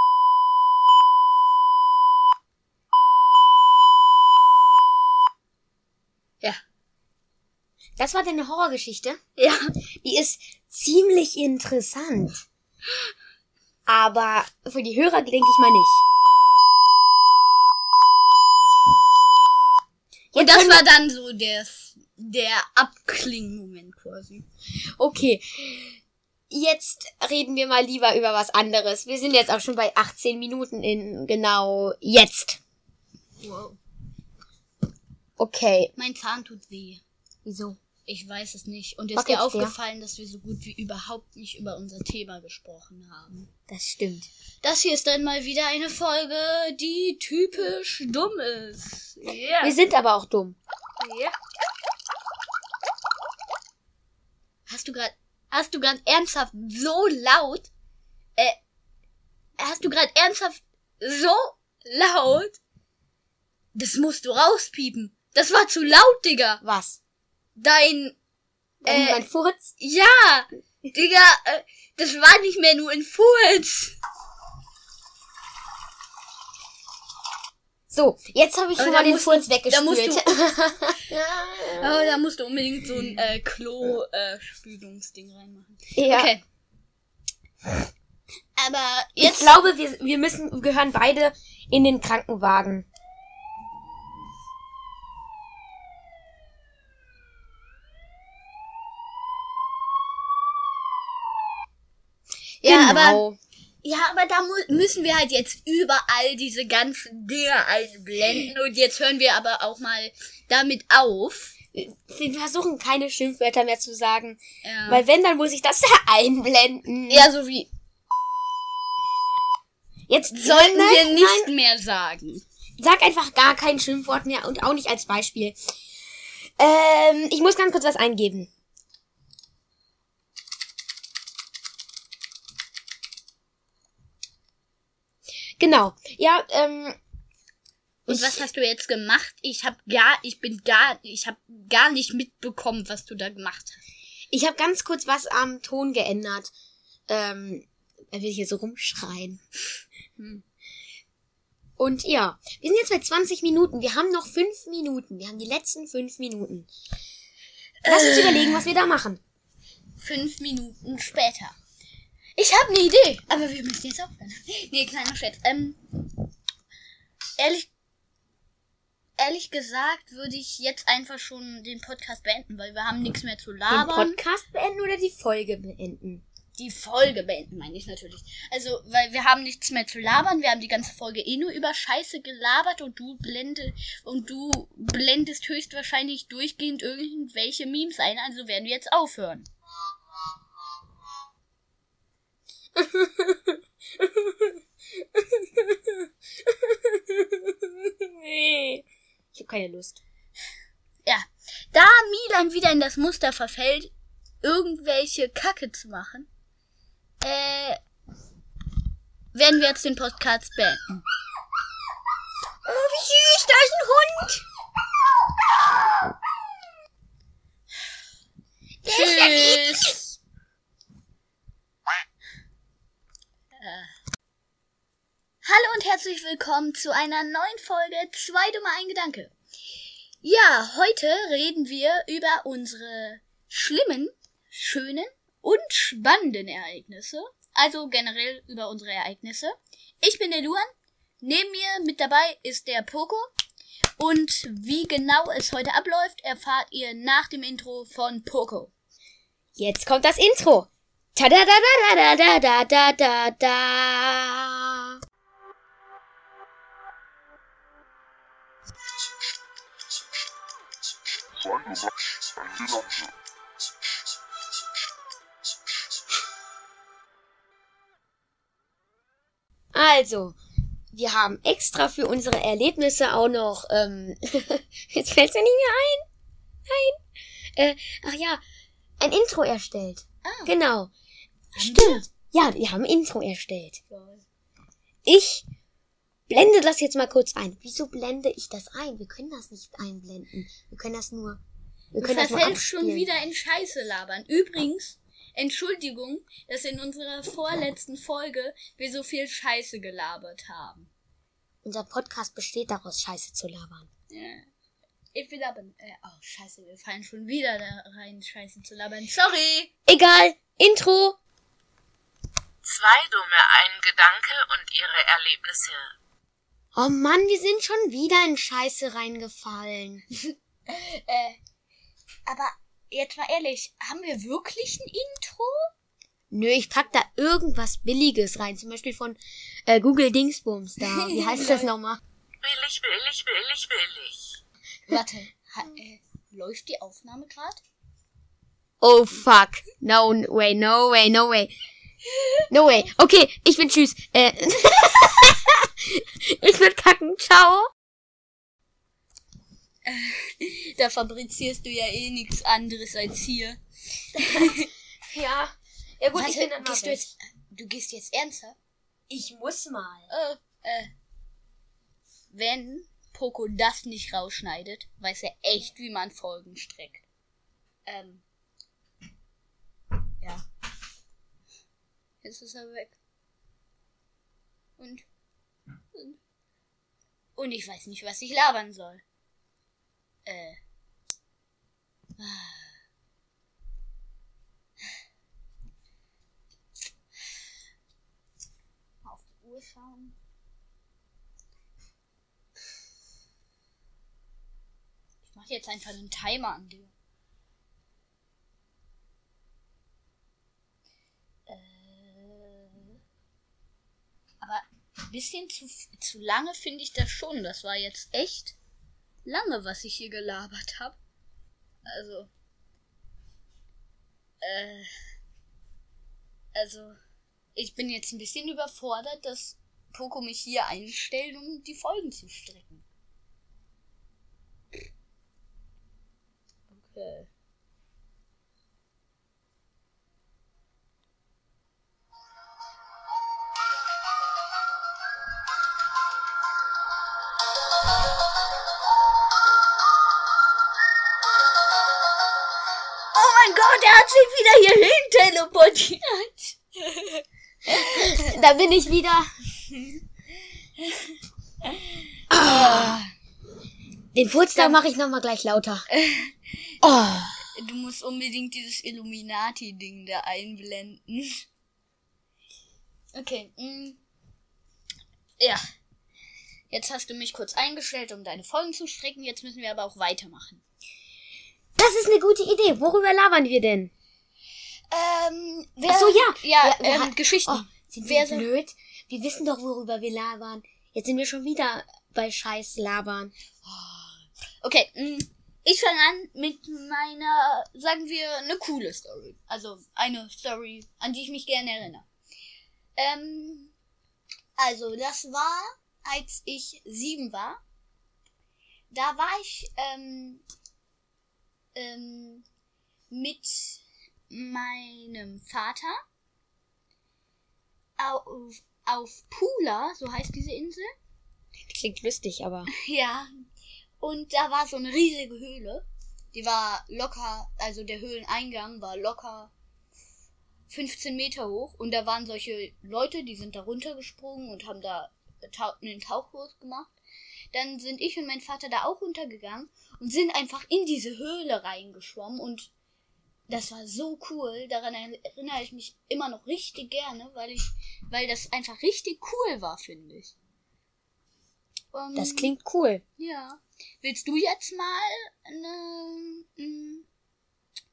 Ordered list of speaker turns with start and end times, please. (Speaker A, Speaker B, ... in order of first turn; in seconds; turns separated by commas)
Speaker A: 8.0-9.2, Speaker B: 9.4-9.7, Speaker A: 10.0-12.4, Speaker A: 13.9-16.0, Speaker A: 20.3-20.9, Speaker B: 20.3-24.4, Speaker A: 25.0-32.6, Speaker B: 33.4-33.8, Speaker A: 35.4-35.9, Speaker B: 36.0-37.0, Speaker A: 37.4-37.8, Speaker B: 38.0-43.5, Speaker A: 39.1-39.7, Speaker A: 43.7-44.3, Speaker B: 44.6-49.8, Speaker A: 49.6-50.6, Speaker B: 51.0-51.3, Speaker B: 54.7-57.7, Speaker B: 59.6-62.6, Speaker B: 63.7-66.6, Speaker A: 66.6-67.0, Speaker B: 67.6-68.2, Speaker B: 68.8-69.2, Speaker A: 68.8-69.7, Speaker B: 69.8-74.0, Speaker A: 77.9-82.1, Speaker B: 78.8-80.4, Speaker B: 81.8-86.4, Speaker A: 86.0-86.3, Speaker B: 88.6-89.5, Speaker A: 89.2-92.8, Speaker B: 102.6-103.2, Speaker A: 102.6-103.4, Speaker B: 103.8-111.5, Speaker A: 111.7-117.3, Speaker B: 114.6-115.0, Speaker B: 117.1-117.7, Speaker A: 120.1-121.5, Speaker B: 120.3-122.4, Speaker A: 122.8-125.6, Speaker A: 126.6-128.5, Speaker A: 135.6-137.0, Speaker A: 138.1-138.4, Speaker B: 138.1-143.8, Speaker A: 144.3-146.5, Speaker A: 147.1-149.4, Speaker A: 151.8-156.7, Speaker B: 157.8-158.7, Speaker A: 157.8-159.2, Speaker B: 160.0-161.6, Speaker B: 162.4-165.8, Speaker B: 167.4-167.7, Speaker B: 169.2-174.2, Speaker A: 173.7-176.2, Speaker B: 176.6-189.5, Speaker A: 192.8-200.0, Speaker B: 201.0-206.3, Speaker B: 207.2-207.8, Speaker B: 209.3-211.0, Speaker A: 212.7-214.4, Speaker A: 218.8-220.0, Speaker B: 218.8-220.1, Speaker B: 223.6-223.9, Speaker B: 225.4-229.3, Speaker B: 230.2-240.7, Speaker B: 241.2-243.3, Speaker B: 244.0-248.7, Speaker A: 249.6-254.9, Speaker A: 269.7-270.4, Speaker A: 270.9-276.0, Speaker A: 276.6-277.0, Speaker A: 277.6-278.4, Speaker A: 279.0-280.9, Speaker B: 280.2-280.5, Speaker B: 281.6-282.1, Speaker A: 281.6-283.8, Speaker B: 283.9-284.2, Speaker A: 285.0-285.4, Speaker A: 286.3-291.4, Speaker A: 291.9-293.1, Speaker B: 291.9-300.9, Speaker A: 301.6-303.9, Speaker B: 304.1-304.4, Speaker B: 305.1-309.7, Speaker A: 309.9-311.2, Speaker C: 312.6-315.9, Speaker A: 316.7-320.0, Speaker B: 320.1-321.4, Speaker B: 322.3-325.7, Speaker A: 326.3-332.0, Speaker B: 330.8-331.7, Speaker C: 332.4-334.4, Speaker B: 334.9-337.6, Speaker A: 338.8-341.5, Speaker A: 342.5-347.7, Speaker B: 349.9-353.6, Speaker B: 354.1-354.7, Speaker A: 354.3-357.1, Speaker B: 356.1-358.6, Speaker A: 359.1-360.1, Speaker B: 360.1-360.9, Speaker B: 362.3-367.0, Speaker B: 367.9-368.2, Speaker B: 372.2-373.0, Speaker B: 374.8-375.1, Speaker B: 377.4-379.0, Speaker B: 380.2-380.6, Speaker B: 382.2-382.7, Speaker B: 389.0-390.1, Speaker B: 395.2-396.9, Speaker B: 401.5-403.0, Speaker B: 404.4-408.5, Speaker B: 409.2-411.0, Speaker B: 411.9-412.3, Speaker B: 414.4-414.9, Speaker B: 416.5-417.0, Speaker B: 417.6-422.8, Speaker B: 426.7-427.3, Speaker B: 443.1-448.3, Speaker A: 447.7-449.3, Speaker B: 449.7-450.0, Speaker A: 452.3-453.0, Speaker B: 452.4-453.1, Speaker A: 454.1-455.9, Speaker B: 455.9-456.3, Speaker A: 456.8-457.4, Speaker B: 457.5-461.4, Speaker B: 463.1-464.0, Speaker B: 465.4-465.7, Speaker B: 466.7-470.6, Speaker A: 471.8-473.9, Speaker B: 474.9-478.5, Speaker A: 475.9-483.3, Speaker B: 483.6-492.1, Speaker B: 492.9-493.7, Speaker B: 494.6-497.6, Speaker B: 498.9-500.4, Speaker B: 501.7-502.4, Speaker B: 503.1-506.0, Speaker B: 508.0-510.9, Speaker A: 511.6-512.7, Speaker B: 512.7-513.4, Speaker B: 514.0-519.5, Speaker B: 520.7-526.9, Speaker B: 527.5-532.7, Speaker B: 533.5-540.3, Speaker B: 541.9-542.5, Speaker A: 542.1-543.0, Speaker B: 543.2-547.0